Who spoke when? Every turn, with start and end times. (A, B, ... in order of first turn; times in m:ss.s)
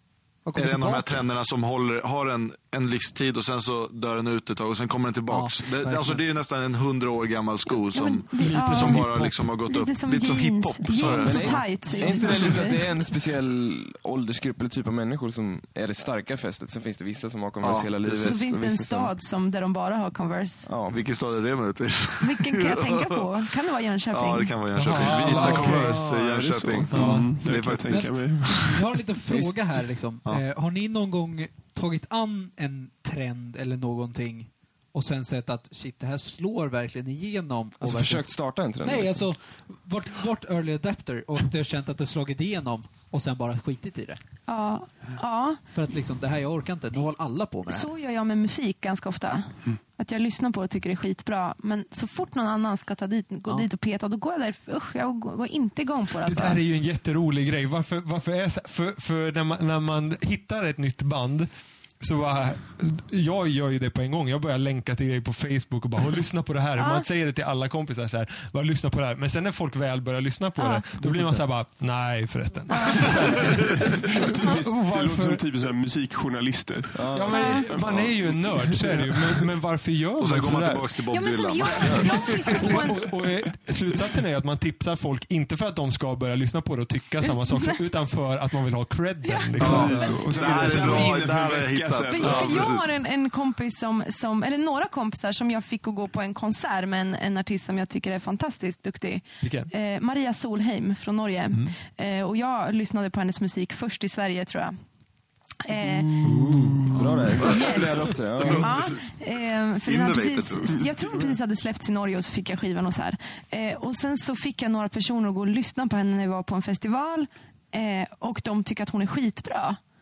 0:00.4-0:01.2 A
0:00.5-0:12.6 B
0:05.3-0:06.2 A
0:07.9-0:09.1 C
0:08.4-0:09.5 D
0:09.6-0:12.8 C
0:11.0-0:19.1 E
0:17.6-0:18.4 B
0:18.2-0:20.7 C
0:20.6-0:21.0 E
0:20.9-0:23.2 B
0:22.2-0:24.6 C
0:24.1-0:28.2 B
0:24.7-0:26.1 D
0:25.1-0:27.2 E
0:26.9-0:27.4 D
0:26.9-0:28.9 F
0:27.9-0:44.2 A
0:37.8-0:39.2 E
0:44.5-0:45.6 C
0:45.7-0:47.9 A
0:47.7-0:56.6 C
0:56.2-1:15.4 D
1:06.8-1:07.0 C
1:10.6-1:10.9 C
1:12.7-1:13.6 C
1:13.5-1:13.8 B
1:14.0-1:19.5 F
1:16.9-1:17.6 E
1:17.1-1:21.0 D
1:17.3-1:17.7 C
1:20.2-1:22.8 B
1:21.1-1:23.1 C
1:22.0-1:31.2 D
1:27.3-1:27.8 C
1:29.2-1:30.2 C
1:29.6-1:32.8 F
1:29.6-1:32.9 B
1:30.7-1:31.2 C
1:32.1-1:44.7 C
1:39.4-1:39.7 D
1:45.6-1:46.3 C
1:45.8-1:46.8 F
1:46.2-1:46.9 D
1:46.9-1:48.7 E
1:47.4-1:59.8 C
1:47.4-1:49.1 B
1:49.8-1:50.8 B